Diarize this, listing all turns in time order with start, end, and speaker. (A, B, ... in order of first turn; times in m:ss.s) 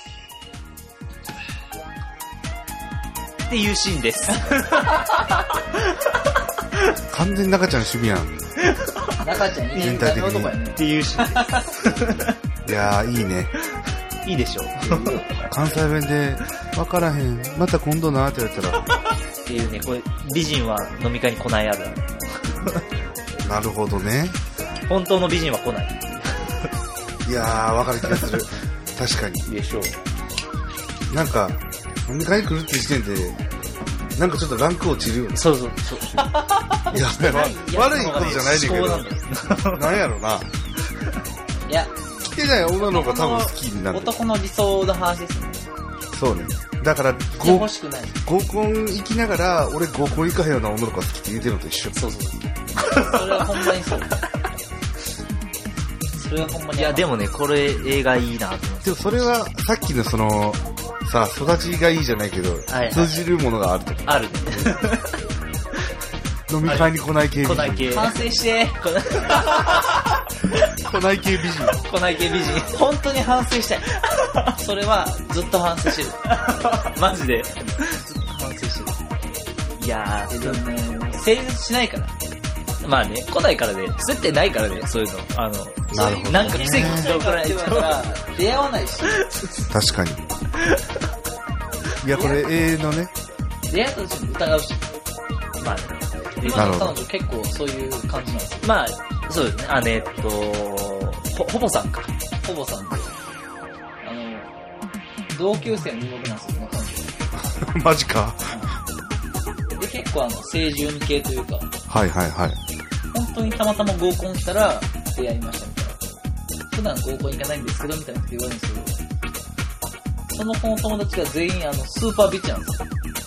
0:03.5-0:06.1 A
0:07.1-0:08.4 B
0:08.6-0:09.2 A
0:09.2-0:11.7 C
0:09.8-0:10.6 B
0:10.7-0:12.3 A
0:12.6-0:13.5 B
0:14.2-0:15.2 A
0:14.8-0:15.3 C
0:15.4-0:18.8 B
0:19.4-0:22.8 A
0:23.4-0:24.4 B
0:24.9-0:26.7 A
0:27.2-0:29.5 B
0:29.4-0:30.0 A
0:31.1-0:33.4 B
0:34.2-0:35.4 B
0:35.3-0:36.3 A
0:36.2-0:36.8 C
0:36.9-0:39.1 B
0:36.9-0:40.0 A
0:39.6-0:40.5 B
0:41.7-0:41.9 C
0:42.2-0:44.1 B
0:42.7-0:45.6 C
0:46.1-0:47.7 B
0:47.3-0:48.2 C
0:48.2-0:52.0 B
0:51.9-0:53.6 A
0:52.8-0:54.2 C
0:56.1-0:57.1 C
0:56.7-0:59.4 A
0:58.8-1:04.8 B
1:02.7-1:03.1 A
1:04.0-1:05.2 A
1:06.5-1:08.0 B
1:06.6-1:08.2 A
1:07.9-1:10.0 C
1:08.8-1:09.9 A
1:10.8-1:11.8 B
1:11.7-1:12.7 A
1:12.6-1:13.9 C
1:14.1-1:14.5 A
1:14.5-1:16.2 C
1:16.3-1:18.0 A
1:17.8-1:19.0 C
1:19.8-1:20.6 A
1:20.3-1:22.1 C
1:22.8-1:28.0 A
1:25.9-1:27.1 B
1:25.9-1:29.2 C
1:29.2-1:29.6 A
1:29.7-1:30.2 B
1:30.6-1:30.8 A
1:32.0-1:33.1 B
1:32.1-1:32.5 C
1:33.7-1:34.8 C
1:35.6-1:36.8 A
1:36.4-1:38.7 C
1:36.5-1:37.0 B
1:38.6-1:42.1 A
1:42.4-1:43.1 C
1:44.0-1:44.5 C
1:45.3-1:47.2 C
1:47.3-1:48.6 B
1:48.5-1:48.7 C
1:49.8-1:51.7 C
1:51.9-1:52.6 B
1:53.1-1:56.1 C
1:56.7-1:59.0 C
2:00.3-2:02.8 C